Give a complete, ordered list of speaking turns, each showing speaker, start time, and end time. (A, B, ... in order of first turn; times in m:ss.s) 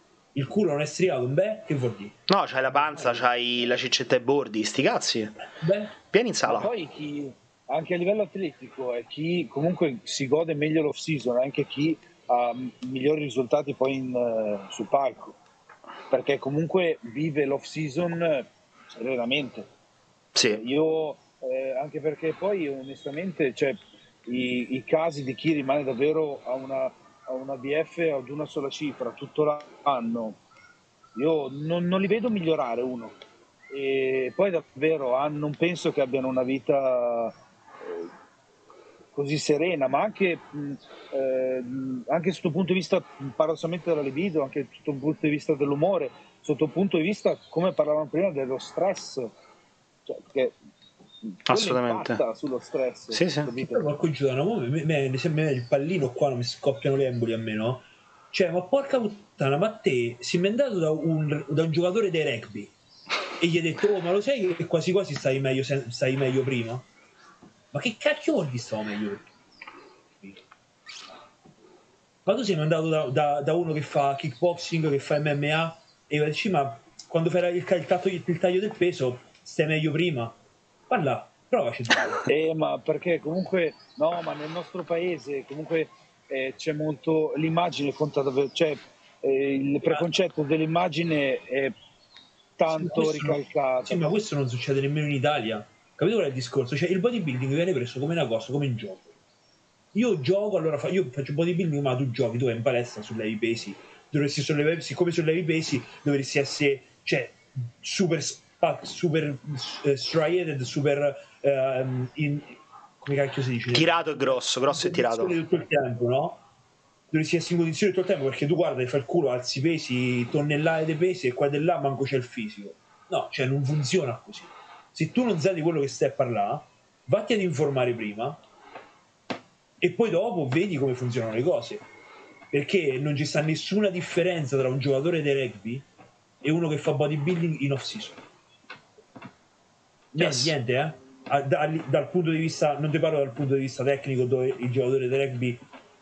0:00.3-0:03.3 A
0:02.3-0:05.3 B
0:05.6-0:06.0 A
0:06.1-0:06.7 B
0:06.4-0:15.4 C
0:16.1-0:19.7 C
0:20.3-0:20.6 B
0:20.5-0:30.4 C
0:31.2-0:33.2 C
0:33.7-0:38.1 C
0:39.1-0:49.3 C
0:50.0-0:50.6 C
0:51.2-0:53.8 C
0:51.5-0:52.2 B
0:53.1-0:53.5 B
0:53.6-1:02.7 A
1:03.4-1:06.8 A
1:07.7-1:09.2 A
1:12.2-1:20.4 A
1:20.9-1:22.2 A
1:22.3-1:31.7 C
1:32.6-1:34.1 C
1:32.7-1:39.1 A
1:39.9-1:56.4 A
1:53.7-1:55.4 B
1:57.1-2:08.4 A
2:09.8-2:11.8 A
2:12.5-2:15.8 A
2:16.4-2:18.2 A
2:20.1-2:25.6 A
2:20.2-2:20.5 B